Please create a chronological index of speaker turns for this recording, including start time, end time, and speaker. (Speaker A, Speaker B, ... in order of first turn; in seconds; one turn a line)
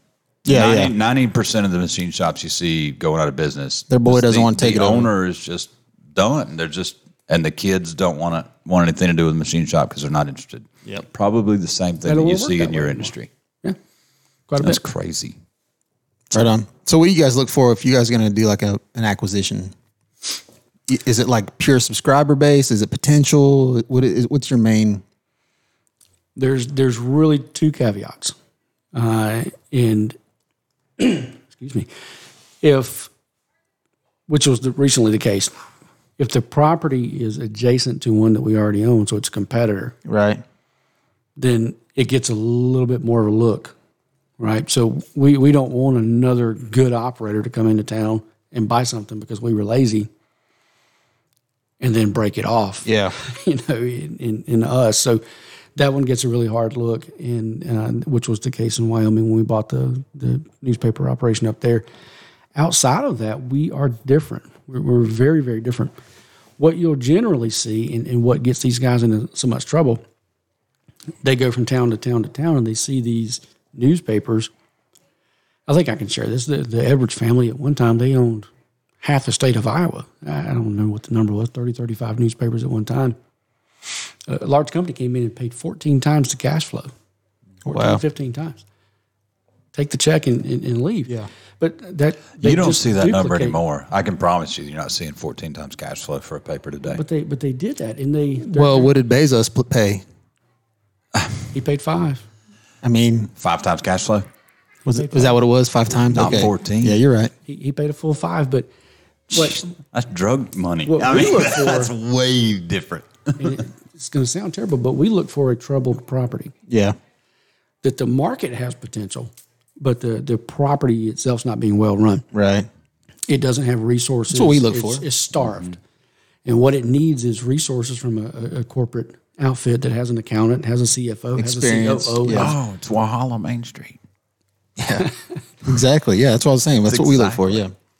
Speaker A: 0.5-0.9
Speaker B: 0.5-13.3
Speaker A: 3.9-5.1
Speaker C: 12.0-13.8
Speaker C: 14.5-14.8
Speaker B: 14.6-15.4
Speaker A: 16.3-19.7
Speaker A: 20.9-25.0
Speaker C: 26.4-28.4
Speaker C: 28.9-30.2
Speaker C: 31.0-31.9
Speaker C: 32.6-33.1
Speaker C: 34.3-35.5
Speaker C: 36.2-40.0
Speaker A: 40.0-40.4
Speaker C: 41.4-43.8
Speaker C: 44.4-50.1
Speaker C: 51.8-55.2
Speaker A: 52.9-53.2
Speaker C: 55.8-61.9
Speaker C: 62.5-66.0
Speaker C: 66.6-70.0
Speaker C: 71.2-74.5
Speaker C: 75.7-78.5
Speaker C: 79.0-83.2
Speaker C: 84.3-86.9
Speaker A: 87.6-88.0
Speaker C: 87.7-88.6
Speaker C: 89.7-93.6
Speaker B: 92.4-97.0
Speaker C: 96.9-98.9
Speaker A: 98.5-100.0
Speaker C: 101.5-102.2
Speaker A: 102.8-103.3
Speaker B: 103.4-104.3
Speaker A: 104.9-107.3
Speaker C: 104.9-105.4
Speaker B: 106.1-107.0
Speaker C: 106.2-106.5
Speaker C: 107.5-108.7
Speaker C: 109.3-109.6
Speaker B: 109.3-113.5
Speaker C: 110.9-111.9
Speaker C: 113.4-116.5
Speaker A: 116.7-117.0
Speaker C: 117.8-122.2
Speaker A: 122.3-122.7
Speaker C: 123.3-125.8
Speaker A: 124.3-125.1
Speaker C: 126.5-132.6
Speaker A: 131.4-132.6
Speaker B: 132.3-134.0
Speaker A: 134.8-135.1
Speaker A: 135.6-137.7
Speaker B: 136.9-137.6